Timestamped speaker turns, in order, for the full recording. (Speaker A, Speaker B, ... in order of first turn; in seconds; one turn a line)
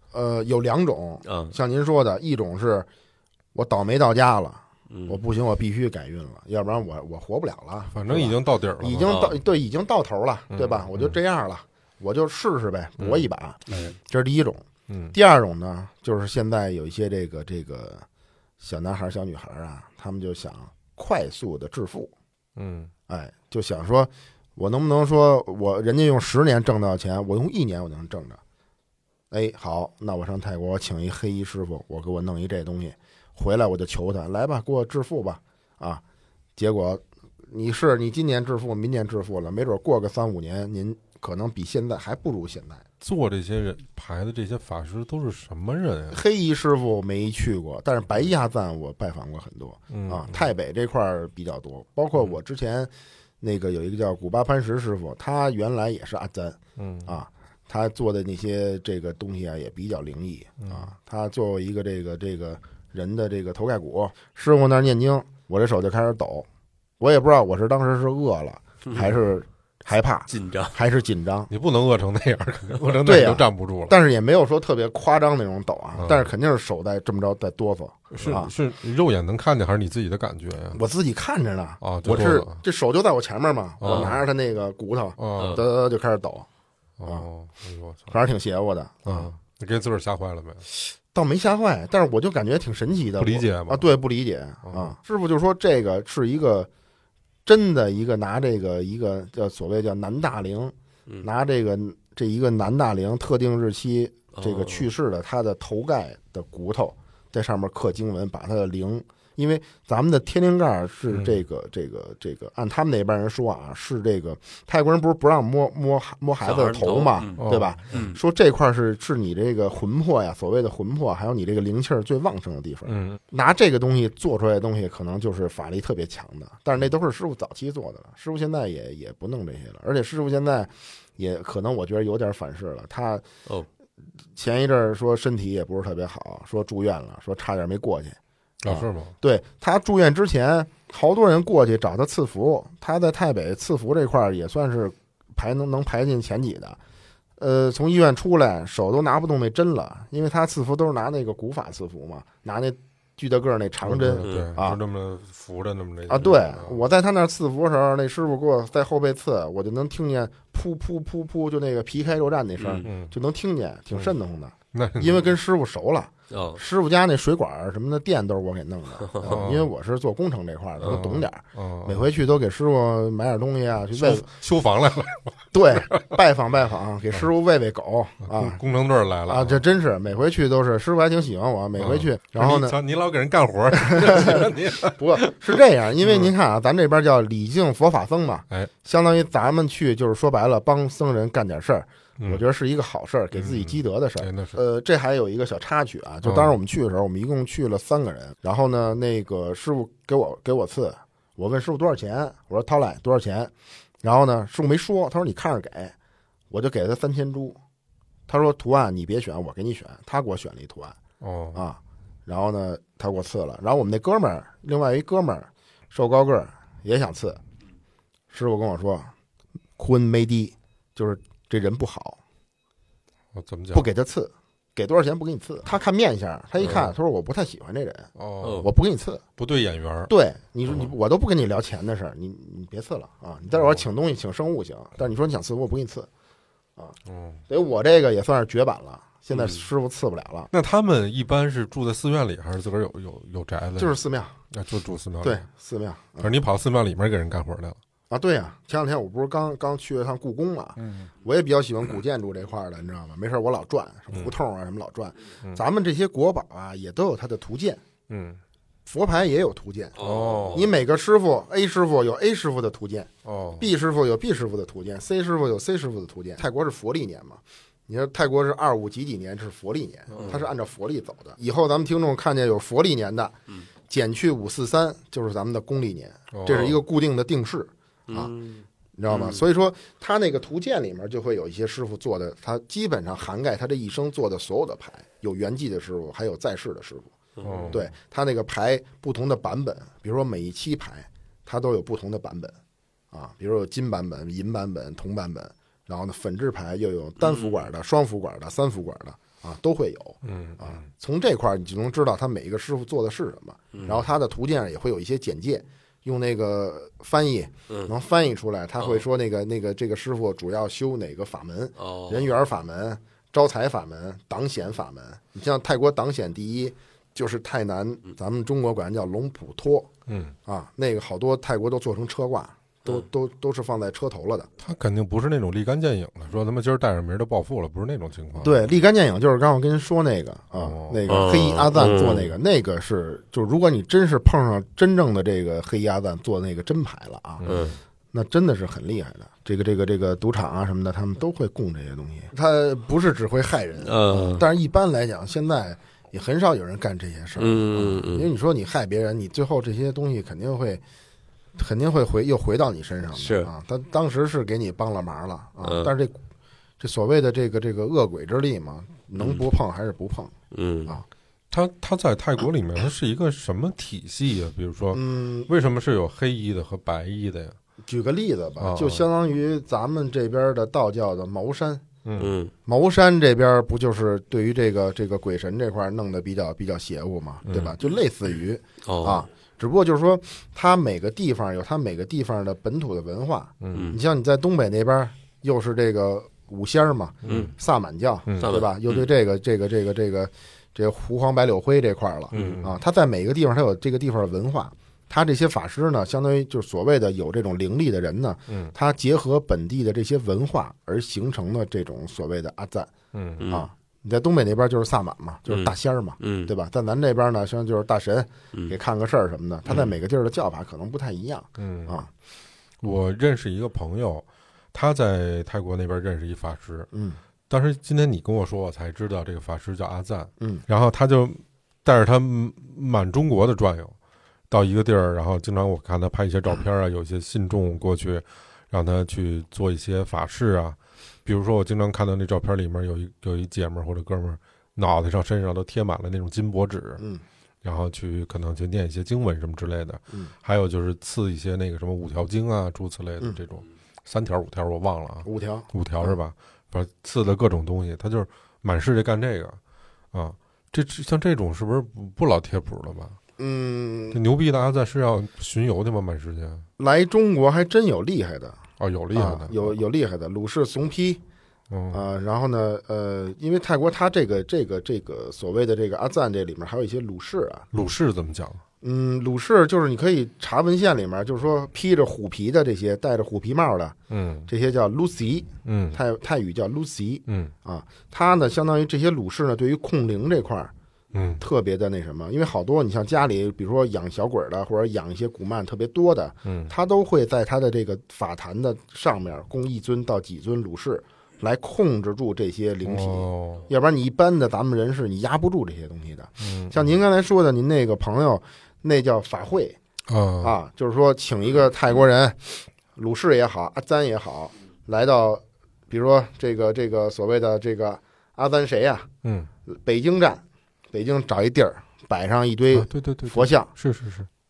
Speaker A: 0.1-2.9
Speaker B: 1.2-1.5
Speaker A: 3.5-18.0
Speaker B: 4.9-5.2
Speaker C: 7.9-9.2
Speaker B: 9.1-9.4
Speaker C: 10.5-11.2
Speaker C: 13.7-13.9
Speaker C: 14.9-15.1
Speaker A: 18.6-22.1
Speaker C: 22.6-22.9
Speaker A: 23.1-28.4
Speaker A: 29.3-36.0
Speaker A: 36.6-42.8
Speaker C: 43.0-46.2
Speaker A: 46.1-66.5
Speaker C: 49.9-50.5
Speaker C: 56.8-57.1
Speaker C: 60.6-60.9
Speaker A: 67.0-71.5
Speaker B: 68.8-69.2
Speaker B: 70.3-70.7
Speaker C: 71.5-73.9
Speaker A: 73.0-78.5
Speaker C: 76.0-76.3
Speaker C: 78.1-80.8
Speaker A: 80.7-86.5
Speaker C: 81.8-82.6
Speaker C: 83.8-84.2
Speaker B: 83.8-84.1
Speaker C: 85.2-85.6
Speaker B: 85.4-85.6
Speaker C: 87.0-88.1
Speaker A: 88.1-89.3
Speaker C: 89.0-90.6
Speaker A: 91.1-96.7
Speaker C: 93.2-93.9
Speaker C: 94.7-94.9
Speaker A: 97.5-133.2
Speaker B: 104.3-104.9
Speaker C: 111.1-111.4
Speaker B: 116.4-118.2
Speaker C: 117.4-118.0
Speaker C: 122.9-123.2
Speaker A: 134.3-146.8
Speaker C: 138.6-139.1
Speaker A: 147.4-154.8
Speaker C: 153.8-156.8
Speaker B: 154.2-154.5
Speaker A: 156.1-174.3
Speaker B: 162.6-162.9
Speaker C: 162.8-163.1
Speaker C: 164.7-165.3
Speaker B: 166.3-166.6
Speaker C: 169.2-169.7
Speaker C: 170.8-172.1
Speaker C: 173.9-176.1
Speaker A: 175.5-178.6
Speaker C: 178.2-179.6
Speaker A: 179.3-182.8
Speaker C: 181.8-185.3
Speaker A: 183.8-203.5
Speaker C: 186.0-186.3
Speaker C: 193.3-194.6
Speaker C: 196.2-196.5
Speaker A: 204.0-205.9
Speaker A: 206.5-207.6
Speaker A: 208.3-210.9
Speaker C: 211.2-211.6
Speaker A: 211.5-217.4
Speaker A: 218.3-219.1
Speaker A: 219.8-222.2
Speaker C: 223.3-223.9
Speaker A: 223.7-229.2
Speaker C: 226.6-226.9
Speaker C: 228.2-228.7
Speaker B: 228.4-228.7
Speaker C: 229.4-230.1
Speaker A: 230.1-236.1
Speaker C: 233.5-233.8
Speaker C: 237.1-237.4
Speaker A: 237.5-240.5
Speaker B: 239.3-239.6
Speaker C: 240.5-244.0
Speaker A: 243.8-244.4
Speaker C: 244.5-245.4
Speaker A: 245.2-246.3
Speaker C: 246.2-247.8
Speaker A: 248.1-257.8
Speaker C: 250.8-251.1
Speaker C: 258.1-258.4
Speaker A: 258.9-260.0
Speaker B: 260.0-260.7
Speaker C: 260.0-260.7
Speaker A: 260.5-273.4
Speaker C: 263.2-263.7
Speaker C: 270.1-270.4
Speaker B: 270.2-270.4
Speaker A: 273.9-278.3
Speaker C: 276.3-276.8
Speaker B: 278.1-279.4
Speaker A: 279.0-287.1
Speaker B: 287.4-287.8
Speaker C: 287.4-287.9
Speaker A: 287.7-292.6
Speaker A: 293.1-319.9
Speaker B: 297.2-297.6
Speaker C: 300.2-300.8
Speaker B: 303.7-304.0
Speaker B: 311.8-312.3
Speaker C: 320.1-320.3
Speaker A: 320.4-324.5
Speaker C: 324.6-328.6
Speaker A: 328.4-337.4
Speaker C: 330.5-331.0
Speaker B: 331.1-332.3
Speaker C: 337.4-337.7
Speaker B: 337.4-337.8
Speaker A: 338.1-350.8
Speaker B: 343.8-344.4
Speaker B: 347.4-348.3
Speaker A: 351.6-356.2
Speaker B: 353.1-353.5
Speaker B: 355.6-355.9
Speaker A: 356.8-360.3
Speaker B: 360.5-360.9
Speaker C: 361.5-367.6
Speaker A: 364.9-365.5
Speaker A: 367.8-371.8
Speaker C: 368.6-369.0
Speaker C: 372.0-372.3
Speaker B: 372.2-372.5
Speaker A: 372.6-402.9
Speaker C: 377.4-377.7
Speaker B: 378.8-379.2
Speaker C: 383.6-383.9
Speaker B: 383.7-384.0
Speaker C: 387.2-387.5
Speaker B: 387.2-387.5
Speaker C: 388.3-388.5
Speaker B: 388.4-389.1
Speaker C: 392.3-392.7
Speaker C: 398.5-398.7
Speaker C: 403.1-403.5
Speaker B: 403.4-403.7
Speaker A: 403.5-412.1
Speaker B: 405.5-406.5
Speaker C: 411.6-412.0
Speaker C: 412.8-416.9
Speaker A: 416.9-417.2
Speaker C: 417.5-423.9
Speaker C: 424.5-437.0
Speaker A: 437.0-437.2
Speaker C: 437.6-449.6
Speaker A: 445.2-446.1
Speaker C: 450.1-453.2
Speaker A: 453.4-454.2
Speaker C: 454.1-456.6
Speaker A: 456.8-458.6
Speaker C: 458.8-459.8
Speaker A: 459.1-461.2
Speaker C: 461.7-462.0
Speaker A: 461.9-467.7
Speaker C: 467.7-468.6
Speaker A: 468.8-473.9
Speaker C: 474.1-474.5
Speaker A: 474.5-480.7
Speaker C: 475.6-476.0
Speaker C: 477.3-477.5
Speaker C: 481.1-481.4
Speaker A: 481.4-499.8
Speaker C: 486.4-486.7
Speaker C: 492.8-493.7
Speaker C: 496.4-496.9
Speaker C: 500.1-500.5
Speaker A: 500.4-509.1
Speaker C: 509.2-509.5
Speaker A: 509.7-513.7
Speaker C: 512.7-514.3